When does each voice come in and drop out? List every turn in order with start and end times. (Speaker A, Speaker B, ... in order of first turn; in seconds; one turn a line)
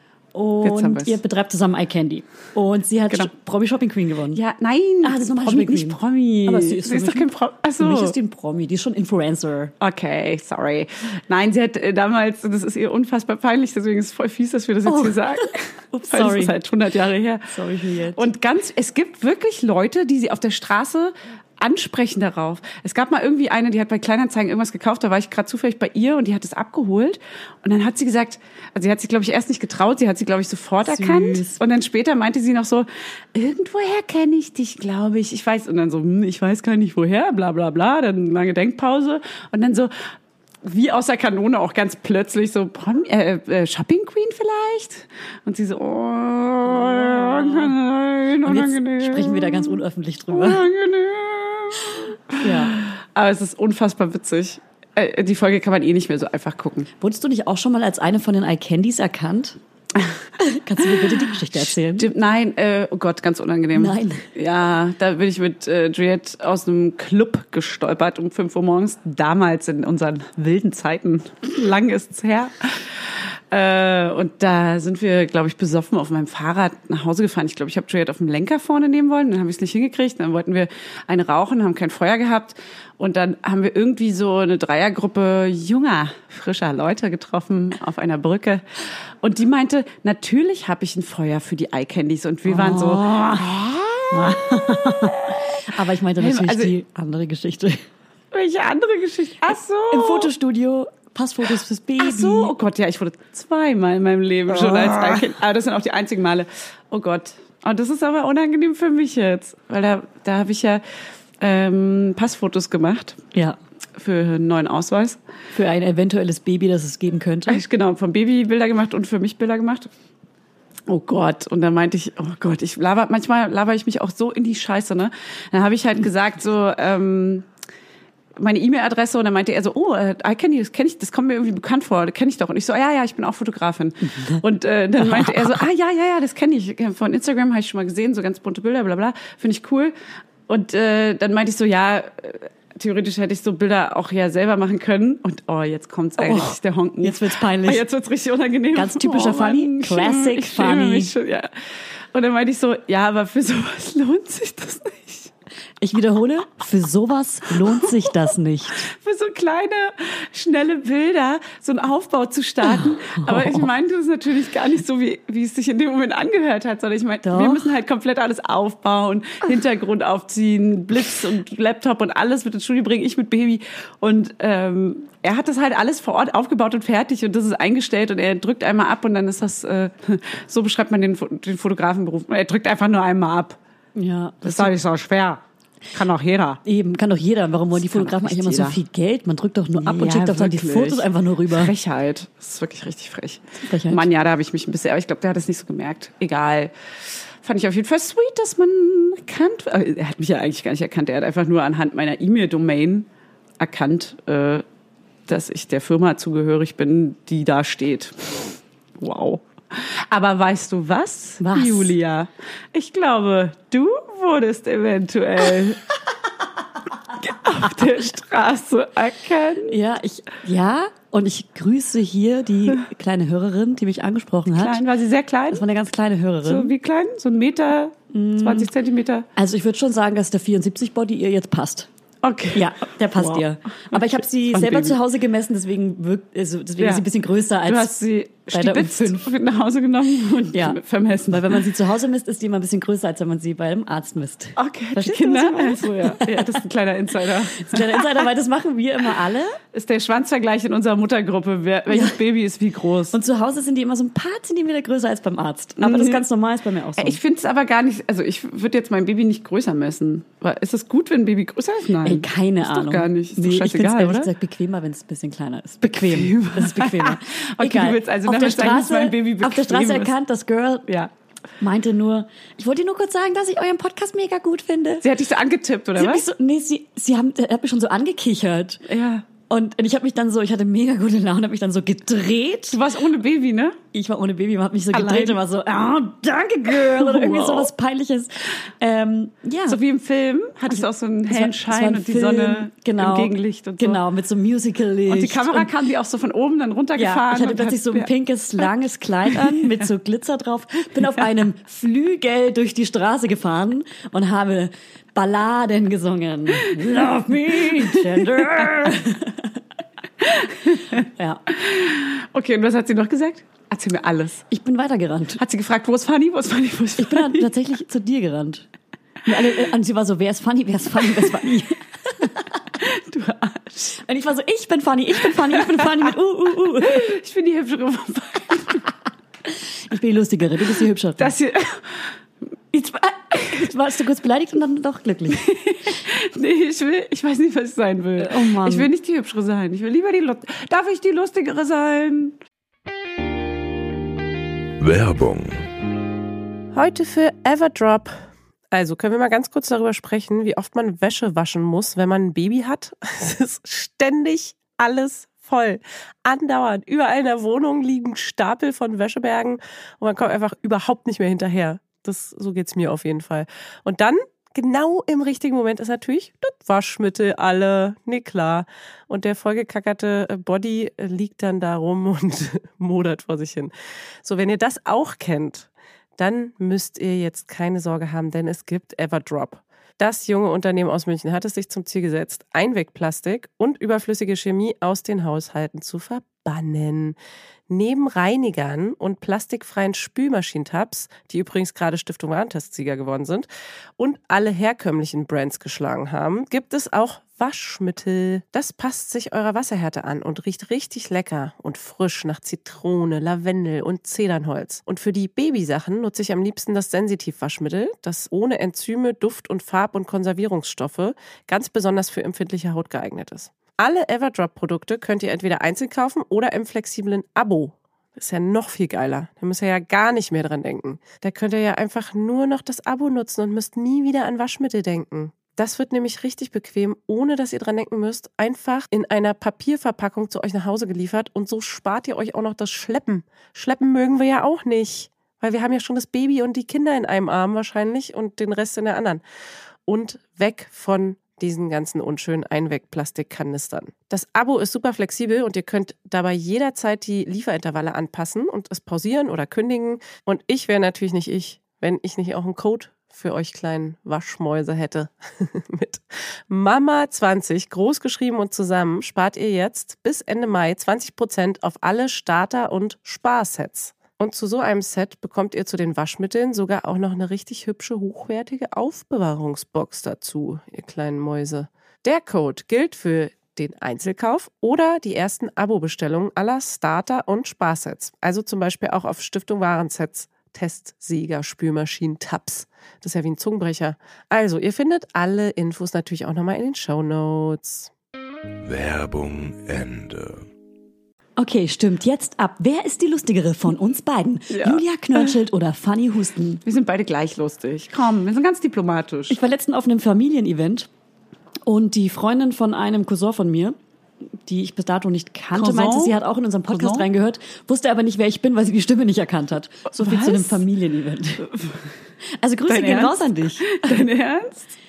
Speaker A: 0.3-4.4
Speaker B: 0.6-1.2
Speaker B: 4.3-8.2
Speaker A: 5.0-9.7
Speaker B: 9.8-17.5
Speaker A: 14.8-16.6
Speaker A: 17.5-18.2
Speaker B: 18.1-39.9
Speaker A: 30.8-31.6
Speaker B: 40.6-49.8
Speaker A: 46.7-47.7
Speaker A: 48.4-50.6
Speaker B: 50.3-56.9
Speaker A: 52.4-52.7
Speaker A: 57.0-59.6
Speaker A: 60.4-62.1
Speaker B: 60.9-96.7
Speaker A: 63.7-64.3
Speaker A: 92.5-93.5
Speaker A: 94.1-97.8
Speaker B: 98.3-100.3
Speaker A: 99.9-102.5
Speaker B: 102.0-110.8
Speaker A: 104.5-105.3
Speaker B: 111.4-113.2
Speaker A: 113.3-113.6
Speaker B: 114.0-115.2
Speaker A: 115.5-117.6
Speaker B: 117.5-119.9
Speaker B: 120.9-127.5
Speaker B: 128.4-139.9
Speaker A: 134.0-134.4
Speaker A: 135.0-135.6
Speaker B: 140.5-151.5
Speaker A: 146.2-147.8
Speaker A: 148.7-151.1
Speaker B: 152.1-155.3
Speaker A: 155.8-158.8
Speaker B: 157.8-158.1
Speaker B: 158.8-183.6
Speaker A: 162.6-163.7
Speaker A: 167.2-167.7
Speaker A: 183.9-184.7
Speaker B: 184.4-186.6
Speaker A: 186.6-191.7
Speaker B: 187.7-188.8
Speaker B: 189.8-196.7
Speaker A: 193.6-194.1
Speaker B: 197.4-203.1
Speaker B: 203.6-204.6
Speaker B: 205.3-215.8
Speaker A: 211.4-211.9
Speaker B: 217.1-219.8
Speaker A: 219.7-224.8
Speaker B: 224.5-225.6
Speaker A: 225.5-226.7
Speaker B: 226.4-229.3
Speaker A: 228.1-228.7
Speaker A: 229.3-231.9
Speaker B: 232.2-235.0
Speaker A: 232.5-237.9
Speaker B: 236.8-237.0
Speaker B: 237.6-241.6
Speaker A: 238.5-239.3
Speaker A: 240.5-246.6
Speaker B: 244.6-248.0
Speaker A: 247.6-249.6
Speaker B: 249.7-253.2
Speaker A: 251.9-252.2
Speaker A: 253.1-257.2
Speaker B: 255.8-256.2
Speaker B: 257.0-264.3
Speaker A: 262.0-271.0
Speaker B: 265.8-270.1
Speaker A: 271.6-275.1
Speaker B: 275.0-276.2
Speaker A: 275.9-278.8
Speaker B: 278.8-279.2
Speaker A: 279.5-282.8
Speaker B: 282.7-283.8
Speaker A: 283.9-289.8
Speaker B: 284.9-285.4
Speaker B: 286.7-287.7
Speaker B: 289.7-294.0
Speaker A: 290.7-295.7
Speaker B: 295.1-298.1
Speaker A: 296.9-309.6
Speaker B: 307.7-308.7
Speaker B: 310.2-311.0
Speaker A: 310.9-311.4
Speaker B: 311.5-314.4
Speaker A: 314.5-315.4
Speaker B: 315.4-317.5
Speaker A: 317.0-318.6
Speaker A: 319.2-322.6
Speaker B: 322.8-323.9
Speaker A: 323.9-327.1
Speaker B: 325.5-325.9
Speaker B: 326.6-328.8
Speaker A: 329.5-331.3
Speaker B: 331.2-332.1
Speaker A: 332.7-335.4
Speaker B: 335.3-342.4
Speaker A: 338.2-338.9
Speaker C: 344.8-345.6
Speaker D: 346.7-348.1
Speaker D: 348.7-373.7
Speaker D: 374.2-387.2
Speaker D: 387.7-439.2
Speaker D: 439.9-487.9
Speaker C: 488.6-490.5
Speaker A: 491.4-496.6
Speaker B: 494.5-495.3
Speaker B: 496.6-499.4
Speaker A: 499.3-500.9
Speaker A: 501.6-503.8
Speaker A: 504.4-511.5
Speaker B: 505.5-506.1
Speaker B: 506.7-507.1
Speaker B: 509.9-510.6
Speaker A: 512.4-514.0
Speaker B: 512.6-514.7